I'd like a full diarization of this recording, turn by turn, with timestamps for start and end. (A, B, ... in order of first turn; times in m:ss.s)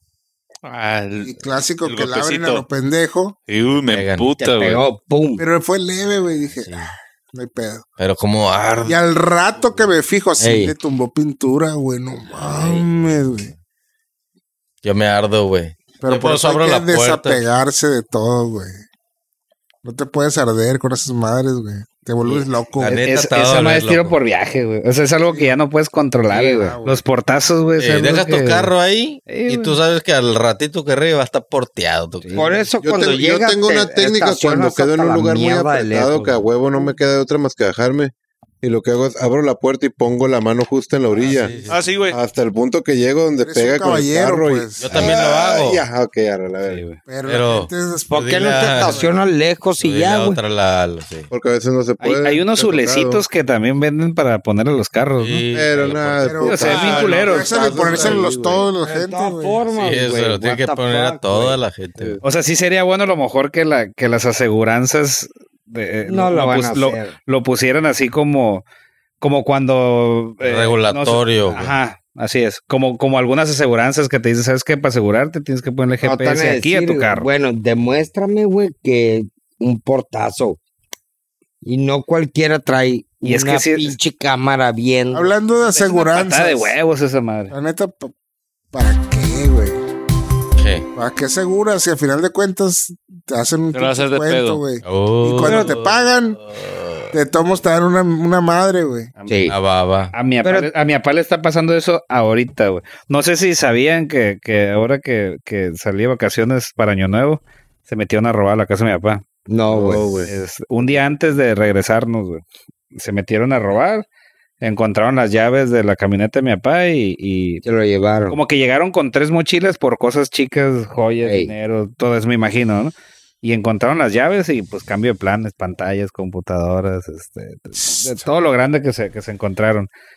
0:00.6-0:02.6 A
0:01.2-0:03.4 B
0:03.5-0:04.8 A
0:03.9-0:04.3 C
0:04.4-0:05.4 D
0:05.4-0:07.8 B
0:06.5-0:06.9 C
0:08.0-0:09.0 C
0:08.8-0:13.5 B
0:10.4-0:10.7 D
0:12.6-0:13.4 C
0:14.8-0:17.4 C
0:16.0-0:18.8 B
0:19.8-0:23.0 B
0:22.8-0:24.2 C
0:23.0-0:28.7 E
0:25.3-0:25.5 B
0:26.3-0:26.8 D
0:26.6-0:27.0 B
0:27.8-0:32.5 C
0:29.3-0:29.8 E
0:32.2-0:32.6 E
0:32.3-0:36.8 D
0:32.8-0:41.6 F
0:41.2-0:41.8 C
0:41.7-0:42.2 A
0:42.1-0:46.8 F
0:43.4-0:45.1 B
0:44.8-0:45.8 C
0:46.6-0:47.0 E
0:47.0-0:49.2 B
0:47.2-0:49.1 C
0:48.1-0:50.4 D
0:49.8-0:51.3 C
0:51.3-0:53.2 F
0:52.0-0:55.4 E
0:55.2-0:56.4 C
0:55.5-0:58.7 F
0:56.2-0:59.6 B
0:56.4-0:57.5 E
0:56.7-0:57.3 A
0:58.8-1:01.6 D
0:59.7-1:02.2 C
1:02.2-1:08.6 E
1:06.0-1:07.2 D
1:09.2-1:17.3 E
1:10.4-1:11.7 C
1:16.0-1:20.6 D
1:21.6-1:25.3 D
1:23.2-1:23.9 E
1:25.1-1:26.8 B
1:25.6-1:27.5 E
1:27.5-1:28.1 B
1:28.7-1:29.8 B
1:30.6-1:30.8 C
1:31.0-1:36.4 B
1:33.7-1:34.6 A
1:34.8-1:37.1 C
1:35.4-1:35.7 D
1:37.1-1:39.1 B
1:39.2-1:39.5 E
1:39.3-1:39.6 D
1:39.5-1:40.1 C
1:40.1-1:49.2 E
1:40.4-1:40.7 D
1:49.5-1:50.1 D
1:49.7-1:50.3 F
1:50.3-1:52.4 E
1:52.9-1:54.0 E
1:54.6-1:57.6 E
1:57.6-1:58.4 D
1:58.3-2:09.9 E
2:01.2-2:01.5 D
2:07.8-2:08.3 B